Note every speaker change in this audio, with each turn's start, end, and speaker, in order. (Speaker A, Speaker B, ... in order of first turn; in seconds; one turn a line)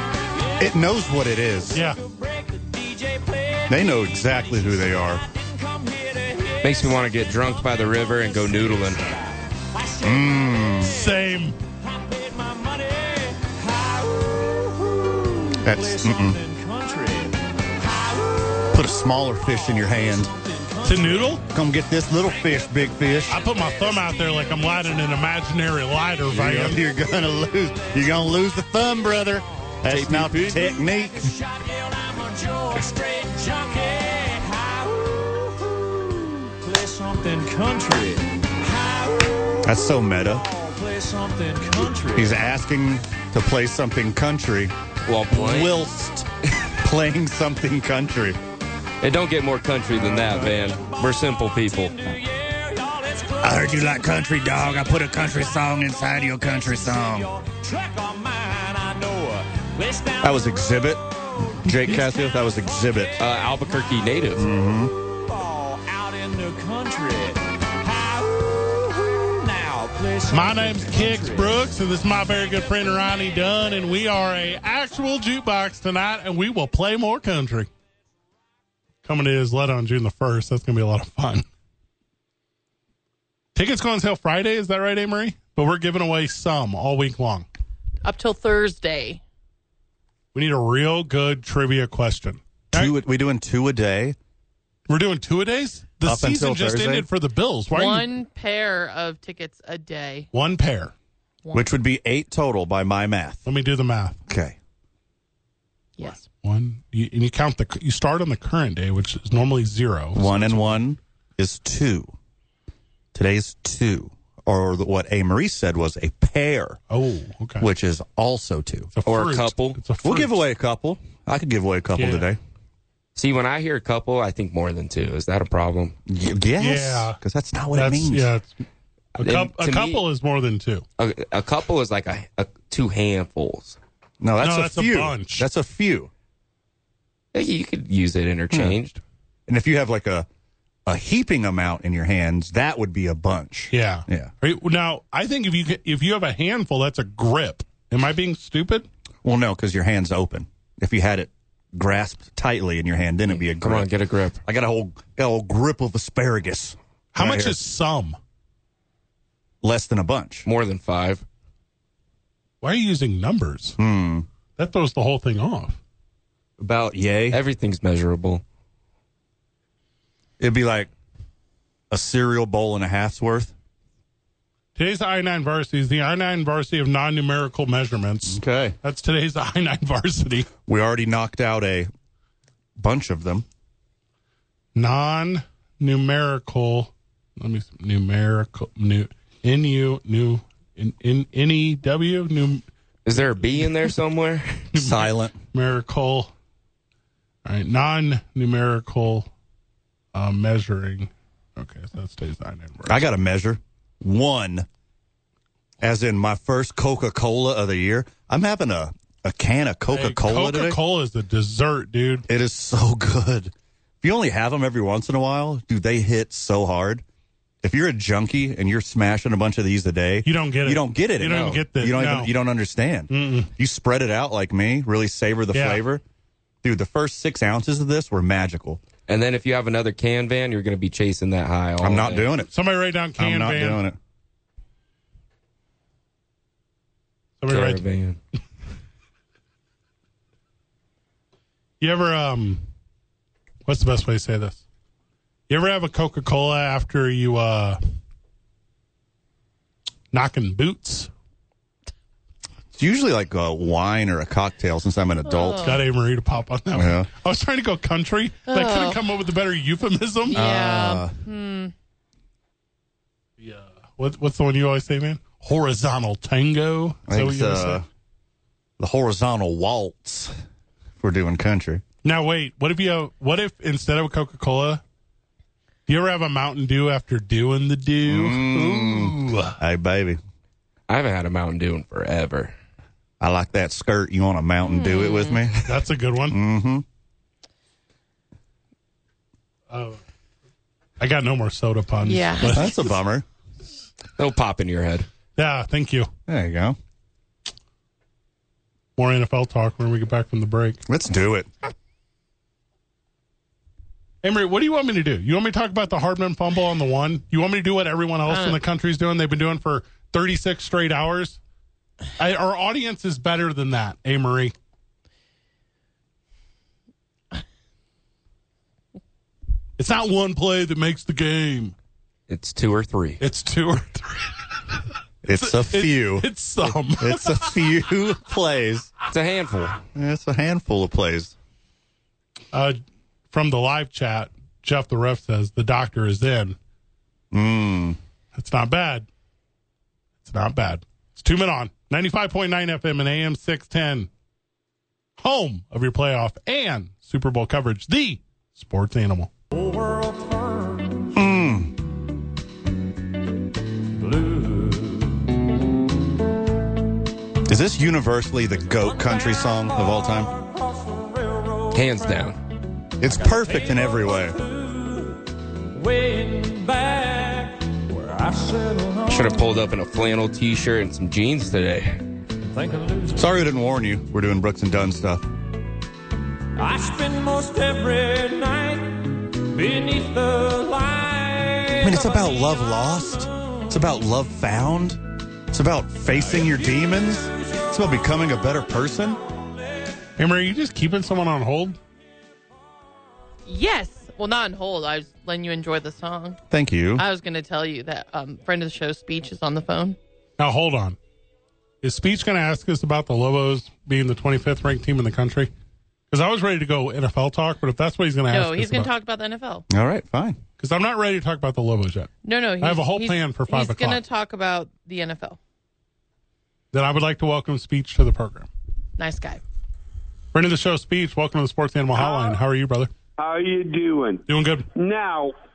Speaker A: 0.3-21.4
Speaker B: 0.6-1.8
Speaker C: 1.7-2.0
Speaker B: 3.7-5.2
Speaker D: 6.6-9.1
Speaker B: 10.0-10.9
Speaker C: 10.8-11.6
Speaker B: 15.6-16.4
Speaker B: 18.7-20.3
Speaker C: 20.8-21.4
Speaker B: 21.5-23.4
Speaker A: 22.1-25.3
Speaker C: 23.3-26.8
Speaker B: 26.3-31.3
Speaker A: 26.8-36.0
Speaker D: 29.9-30.6
Speaker A: 36.6-42.4
Speaker B: 39.6-40.4
Speaker B: 42.1-44.7
Speaker D: 45.0-45.8
Speaker B: 45.3-46.3
Speaker B: 46.8-48.4
Speaker D: 49.0-51.9
Speaker A: 50.1-64.3
Speaker B: 53.4-57.3
Speaker B: 60.2-61.0
Speaker B: 61.6-63.1
Speaker D: 63.2-64.4
Speaker B: 64.3-64.9
Speaker A: 64.9-71.7
Speaker C: 70.3-77.7
Speaker A: 72.5-73.4
Speaker C: 79.0-81.4
Speaker C: 83.5-87.5
Speaker E: 88.0-89.2
Speaker C: 90.3-92.9
Speaker B: 92.7-94.2
Speaker C: 94.9-98.1
Speaker B: 96.0-97.1
Speaker E: 97.7-100.3
Speaker C: 100.3-100.9
Speaker E: 101.4-101.7
Speaker B: 101.5-103.5
Speaker C: 103.5-104.2
Speaker B: 104.3-104.6
Speaker E: 106.0-106.2
Speaker C: 106.4-110.8
Speaker B: 110.1-112.1
Speaker B: 113.1-116.8
Speaker C: 116.9-117.7
Speaker B: 117.6-118.9
Speaker C: 118.9-120.3
Speaker D: 119.0-119.8
Speaker B: 120.0-122.4
Speaker C: 122.0-122.3
Speaker D: 123.2-125.9
Speaker B: 126.1-128.3
Speaker C: 126.6-127.2
Speaker C: 127.7-128.5
Speaker D: 129.2-130.0
Speaker C: 129.2-130.8
Speaker D: 131.0-133.8
Speaker B: 134.2-136.1
Speaker C: 134.4-135.5
Speaker D: 137.3-139.0
Speaker B: 138.5-138.8
Speaker B: 139.5-140.3
Speaker B: 140.8-144.3
Speaker C: 143.7-148.8
Speaker B: 149.2-153.9
Speaker D: 153.4-154.4
Speaker B: 154.4-157.6
Speaker C: 157.1-158.2
Speaker B: 159.6-160.4
Speaker D: 160.4-161.2
Speaker C: 162.6-163.8
Speaker B: 163.8-164.3
Speaker C: 164.6-165.8
Speaker B: 166.6-167.4
Speaker D: 167.3-168.4
Speaker B: 170.4-170.9
Speaker B: 171.9-173.5
Speaker C: 174.8-180.5
Speaker B: 178.3-178.7
Speaker B: 180.7-181.9
Speaker B: 182.8-183.4
Speaker C: 184.7-193.7
Speaker D: 193.1-194.7
Speaker C: 194.7-196.3
Speaker B: 194.8-195.3
Speaker C: 197.4-199.3
Speaker C: 200.1-203.0
Speaker B: 202.8-204.7
Speaker B: 205.8-210.8
Speaker C: 209.9-212.2
Speaker B: 212.3-217.0
Speaker B: 217.6-226.0
Speaker C: 220.2-222.3
Speaker D: 221.2-221.6
Speaker C: 223.1-223.5
Speaker C: 225.5-225.8
Speaker B: 226.6-228.8
Speaker D: 229.1-232.3
Speaker B: 231.8-232.5
Speaker C: 232.5-233.8
Speaker B: 233.2-234.0
Speaker C: 237.4-237.8
Speaker D: 237.5-238.2
Speaker C: 241.8-242.6
Speaker C: 243.7-244.6
Speaker C: 245.5-247.8
Speaker C: 250.1-251.1
Speaker B: 252.7-255.7
Speaker E: 255.2-255.8
Speaker C: 255.6-260.4
Speaker B: 256.7-257.1
Speaker E: 258.5-259.0
Speaker E: 260.3-261.7
Speaker B: 260.3-261.2
Speaker C: 263.4-267.8
Speaker B: 267.1-267.9
Speaker B: 268.8-270.3
Speaker B: 271.0-271.8
Speaker C: 272.0-274.8
Speaker C: 275.9-279.6
Speaker B: 278.0-280.2
Speaker D: 280.9-282.5
Speaker B: 283.2-285.7
Speaker E: 284.6-285.4
Speaker C: 285.6-286.4
Speaker B: 286.3-286.8
Speaker C: 289.7-290.0
Speaker C: 291.0-292.7
Speaker E: 292.0-292.7
Speaker B: 292.5-293.2
Speaker D: 294.2-295.1
Speaker C: 295.4-296.1
Speaker B: 296.3-296.8
Speaker C: 299.0-300.8
Speaker B: 300.9-301.5
Speaker C: 304.2-311.4
Speaker E: 308.3-308.6
Speaker C: 312.2-314.5
Speaker C: 319.8-321.7
Speaker D: 322.3-323.2
Speaker C: 323.2-324.6
Speaker B: 325.2-326.3
Speaker C: 325.3-327.6
Speaker B: 327.0-328.9
Speaker D: 329.1-329.8
Speaker B: 329.9-331.3
Speaker C: 332.5-332.8
Speaker C: 333.3-336.6
Speaker B: 337.3-338.0
Speaker C: 338.3-339.1
Speaker C: 340.2-344.1
Speaker C: 345.2-349.3
Speaker A: 349.5-351.1
Speaker B: 351.1-351.7
Speaker A: 354.0-355.3
Speaker B: 357.4-360.3
Speaker A: 358.7-362.3
Speaker D: 361.7-362.4
Speaker B: 363.0-364.4
Speaker A: 363.0-369.6
Speaker D: 369.1-372.0
Speaker A: 372.4-373.3
Speaker B: 373.1-375.2
Speaker A: 376.6-383.8
Speaker B: 381.8-389.2
Speaker A: 386.1-388.3
Speaker C: 390.2-391.8
Speaker E: 393.5-396.4
Speaker B: 396.5-397.0
Speaker E: 397.0-400.0
Speaker C: 400.4-401.0
Speaker C: 401.8-405.5
Speaker C: 406.1-408.9
Speaker E: 408.3-409.6
Speaker B: 409.7-410.4
Speaker C: 410.6-414.0
Speaker E: 412.2-415.4
Speaker C: 416.7-418.5
Speaker E: 419.0-419.4
Speaker C: 420.3-422.9
Speaker F: 423.2-425.3
Speaker C: 424.3-424.7